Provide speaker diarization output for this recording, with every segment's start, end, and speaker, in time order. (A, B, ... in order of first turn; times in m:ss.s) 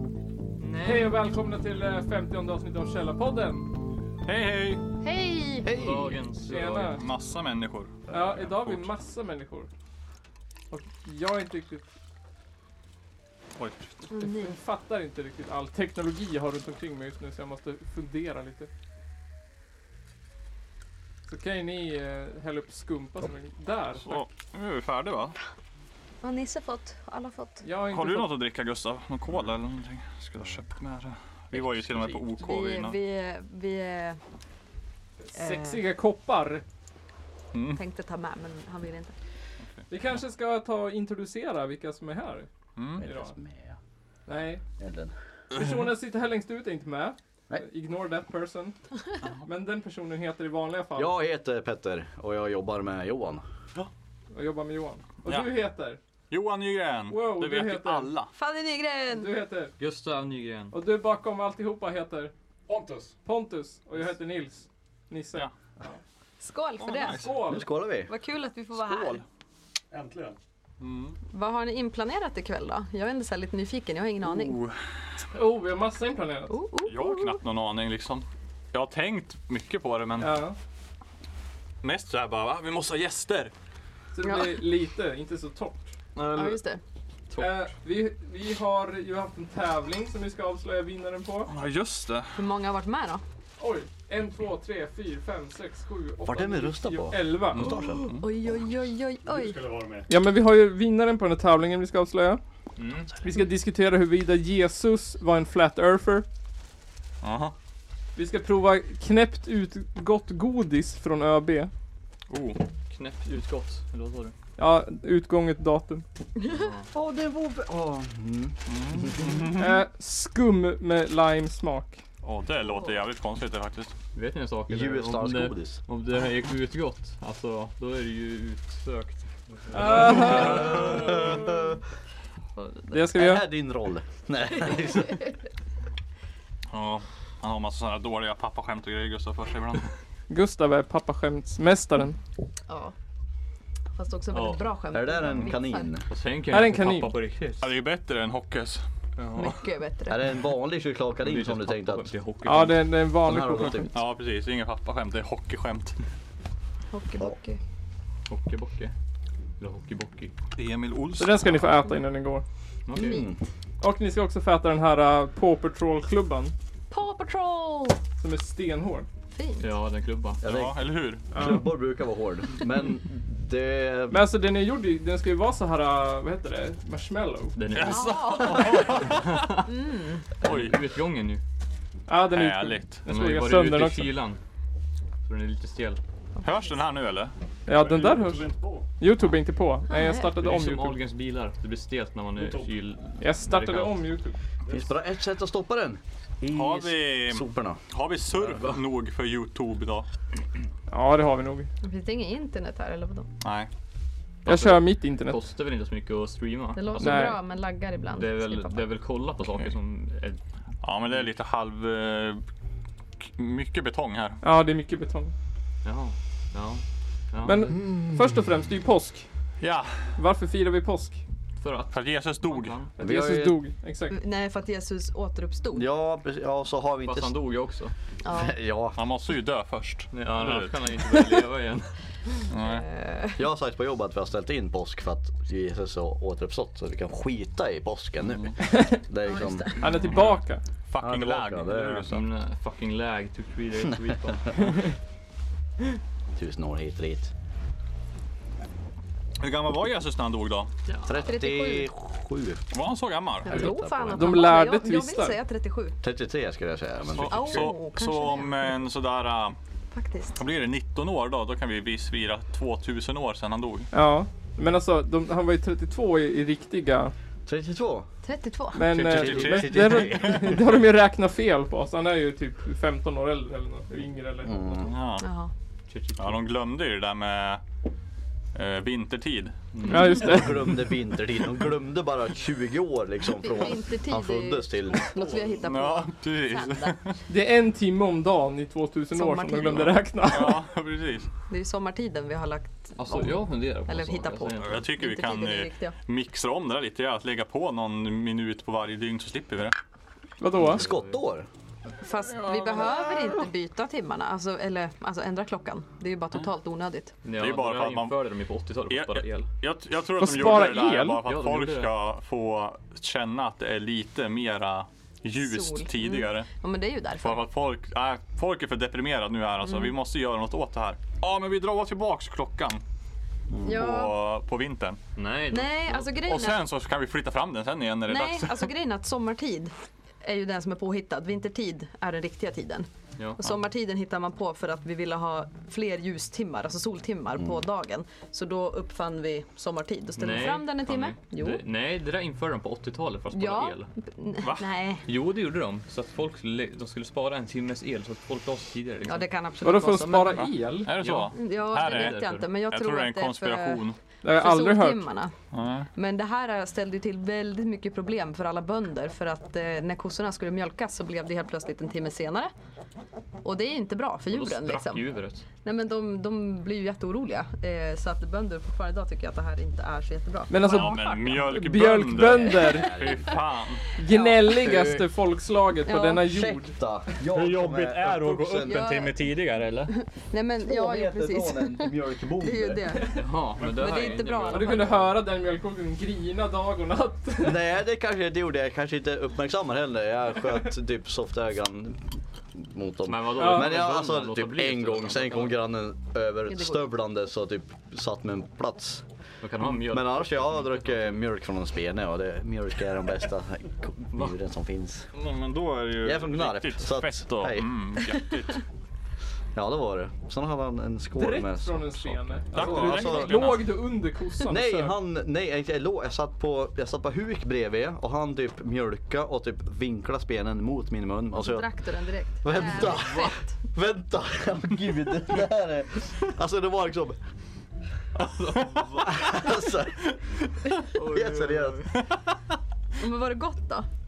0:00.6-0:01.2 A
0:00.8-0:03.7 B
0:04.2-0:04.8 C
0:05.0-0:05.8 D
0:05.6-0:06.2 E
0:05.7-0:07.0 A
0:06.4-0:07.0 B
0:06.9-0:08.9 C
0:08.1-0:09.7 B
0:10.7-0:11.8 B
0:13.6-0:13.9 C
0:14.1-0:14.5 D
0:14.2-0:18.7 B
0:21.3-0:24.2 B
0:24.0-0:25.4 C
0:26.2-0:27.6 D
0:27.6-0:28.4 B
0:27.9-0:33.0 C
0:32.1-0:34.2 D
0:35.3-0:36.6 B
0:35.4-0:35.8 D
0:37.5-0:37.8 C
0:37.7-0:39.2 D
0:39.9-0:42.5 B
0:42.8-0:43.0 C
0:43.0-0:43.8 E
0:43.0-0:43.3 B
0:44.3-0:44.6 B
0:44.8-0:45.1 E
0:45.5-0:48.8 B
0:45.5-0:45.8 C
0:49.4-0:51.2 B
0:50.9-0:53.4 E
0:54.3-0:56.0 B
0:56.3-0:58.3 C
0:57.1-0:58.2 B
0:58.3-0:59.3 D
0:59.1-0:59.7 B
0:59.8-1:00.7 A
1:00.7-1:02.3 B
1:02.7-1:03.1 F
1:03.2-1:06.0 B
1:06.4-1:07.3 D
1:06.8-1:07.3 C
1:07.1-1:07.6 B
1:07.5-1:08.1 E
1:08.0-1:09.2 D
1:08.8-1:09.2 C
1:09.9-1:10.4 F
1:10.8-1:11.2 C
1:11.3-1:14.6 D
1:14.2-1:14.8 C
1:15.3-1:16.5 B
1:16.5-1:17.4 D
1:16.8-1:20.4 C
1:20.2-1:20.6 B
1:21.8-1:23.5 C
1:24.1-1:25.9 B
1:24.2-1:24.6 D
1:26.2-1:26.6 C
1:26.3-1:26.8 D
1:27.4-1:31.5 B
1:31.5-1:32.4 C
1:32.3-1:33.2 D
1:33.6-1:37.6 B
1:36.2-1:38.1 E
1:37.6-1:38.2 C
1:37.6-1:39.6 D
1:39.2-1:40.1 F
1:40.1-1:42.4 B
1:42.8-1:43.1 A
1:43.2-1:46.2 B
1:47.2-1:47.5 C
1:48.2-1:51.7 B
1:52.3-1:52.6 C
1:52.9-1:54.3 A
1:54.6-1:56.0 B
1:56.5-1:56.9 A
1:56.9-1:59.4 E
1:58.7-1:59.7 C
1:59.6-2:02.0 B
2:02.2-2:03.9 C
2:02.6-2:03.0 D
2:04.1-2:10.8 A
2:04.7-2:05.8 E
2:09.7-2:10.9 B
2:10.1-2:11.3 C
2:10.3-2:11.8 E
2:12.6-2:13.0 D
2:12.9-2:13.4 B
2:13.1-2:15.2 E
2:16.7-2:19.9 C
2:20.3-2:22.2 B
2:22.7-2:22.9 D
2:23.9-2:25.9 D
2:24.3-2:24.6 A
2:24.9-2:26.0 E
2:26.1-2:27.7 A
2:26.5-2:27.1 B
2:27.6-2:29.6 C
2:29.3-2:30.2 D
2:30.1-2:32.1 E
2:31.2-2:32.8 A
2:32.4-2:33.9 B
2:33.2-2:33.9 E
2:33.9-2:36.0 C
2:36.9-2:37.6 D
2:38.3-2:38.9 A
2:39.6-2:40.3 A
2:40.5-2:41.6 C
2:41.2-2:42.4 B
2:42.9-2:43.2 A
2:42.9-2:43.4 D
2:43.0-2:43.4 E
2:43.8-2:46.5 B
2:46.9-2:48.0 D
2:48.2-2:49.1 B
2:49.3-2:49.6 D
2:49.6-2:50.4 A
2:50.4-2:54.3 E
2:50.4-2:51.2 C
2:51.3-2:51.7 B
2:54.1-2:57.6 B
2:57.6-2:58.2 A
2:57.7-2:59.6 C
2:57.8-2:59.0 D
2:59.0-2:59.6 A
2:59.6-3:00.3 D
3:00.4-3:00.8 C
3:00.4-3:01.4 A
3:02.1-3:04.1 B
3:02.3-3:03.0 C
3:03.0-3:04.4 A
3:05.2-3:06.0 A
3:06.4-3:07.3 C
3:07.7-3:11.0 B
3:07.7-3:08.9 F
3:09.9-3:10.3 D
3:10.3-3:14.0 A
3:12.4-3:12.7 F
3:13.2-3:14.4 B
3:14.7-3:17.8 E
3:16.5-3:20.0 C
3:18.4-3:18.8 A
3:20.9-3:21.7 B
3:21.8-3:23.3 D
3:23.4-3:23.7 C
3:24.4-3:27.3 A
3:24.4-3:25.4 B
3:26.7-3:28.8 D
3:27.0-3:27.4 B
3:28.1-3:30.4 A
3:30.8-3:32.4 C
3:33.2-3:34.4 C
3:34.4-3:35.3 B
3:35.8-3:37.7 A
3:37.4-3:39.2 B
3:37.8-3:38.2 E
3:39.6-3:40.1 C
3:40.1-3:41.2 B
3:41.6-3:42.9 A
3:41.9-3:42.8 C
3:43.0-3:43.6 E
3:43.0-3:44.2 B
3:44.1-3:45.8 D
3:45.7-3:47.3 E
3:47.0-3:47.9 A
3:48.2-3:48.5 D
3:48.3-3:49.0 E
3:48.9-3:50.8 C
3:50.1-3:51.9 A
3:52.5-3:52.8 C
3:52.5-3:53.4 D
3:53.4-3:59.8 E
3:58.7-3:59.0 B
3:59.2-4:00.1 D
3:59.8-4:00.6 B
4:00.0-4:00.3 C
4:00.9-4:02.2 C
4:01.0-4:02.1 E
4:02.1-4:04.8 A
4:06.3-4:07.3 E
4:09.4-4:10.7 C
4:11.0-4:12.7 E
4:11.2-4:11.9 D
4:12.7-4:13.6 C
4:13.4-4:16.0 D
4:13.5-4:14.5 E
4:13.5-4:15.4 B
4:16.0-4:17.7 E
4:17.1-4:19.6 C
4:17.3-4:18.7 D
4:19.9-4:20.4 D
4:20.4-4:23.9 C
4:23.9-4:27.1 B
4:27.4-4:28.1 E
4:28.2-4:28.8 D
4:28.7-4:34.7 B
4:28.9-4:30.5 C
4:29.0-4:30.6 E
4:34.4-4:35.0 E
4:34.8-4:35.3 C
4:35.2-4:35.5 D
4:35.9-4:36.4 A
4:36.2-4:37.6 C
4:38.5-4:39.8 C
4:39.8-4:45.1 E
4:39.8-4:40.9 B
4:43.4-4:46.9 D
4:45.6-4:47.1 C
4:47.3-4:50.6 B
4:49.1-4:50.0 D
4:50.2-4:51.3 C
4:51.5-4:56.0 D
4:53.0-4:54.8 A
4:54.6-4:59.8 C
5:00.4-5:00.8 B
5:00.6-5:01.5 E
5:00.6-5:01.2 A
5:02.0-5:07.2 D
5:02.3-5:03.4 C
5:07.2-5:09.5 A
5:07.4-5:08.2 C
5:08.9-5:16.5 C
5:10.2-5:11.2 B
5:11.2-5:11.9 A
5:15.4-5:17.5 D
5:17.2-5:22.8 C
5:23.6-5:24.1 D
5:23.7-5:25.0 C
5:25.2-5:26.1 A
5:25.5-5:26.6 D
5:26.2-5:28.7 C
5:28.0-5:32.9 D
5:33.2-5:33.4 A
5:33.4-5:41.6 D
5:40.2-5:43.9 A
5:43.3-5:45.0 D
5:44.4-5:44.7 C
5:45.0-5:52.4 A
5:49.0-5:50.4 D
5:49.6-5:50.9 B
5:50.3-5:54.0 C
5:51.3-5:55.3 D
5:54.2-5:55.0 B
5:55.5-5:55.9 C
5:55.9-6:02.5 D
6:03.4-6:05.0 D
6:04.3-6:05.4 A
6:05.6-6:11.4 D
6:10.5-6:12.9 B
6:10.6-6:13.8 C
6:12.6-6:13.3 D
6:12.7-6:13.3 E
6:13.9-6:15.0 D
6:13.9-6:16.7 B
6:14.4-6:15.0 E
6:15.8-6:16.3 D
6:16.2-6:18.8 E
6:17.3-6:19.9 C
6:18.6-6:19.2 D
6:20.0-6:25.1 D
6:20.6-6:23.0 E
6:23.1-6:25.1 A
6:24.4-6:27.6 B
6:27.4-6:39.0 E
6:33.0-6:35.6 A
6:33.4-6:33.7 B
6:36.5-6:36.9 D
6:39.4-6:41.2 A
6:39.8-6:45.1 E
6:45.1-6:48.6 C
6:46.0-6:47.9 E
6:49.5-6:53.5 E
6:51.1-6:54.9 B
6:52.5-6:53.7 C
6:54.4-7:01.7 E
7:01.3-7:03.5 D
7:02.4-7:07.2 E
7:08.2-7:09.5 C
7:09.0-7:11.8 E
7:10.9-7:12.1 A
7:13.0-7:13.9 D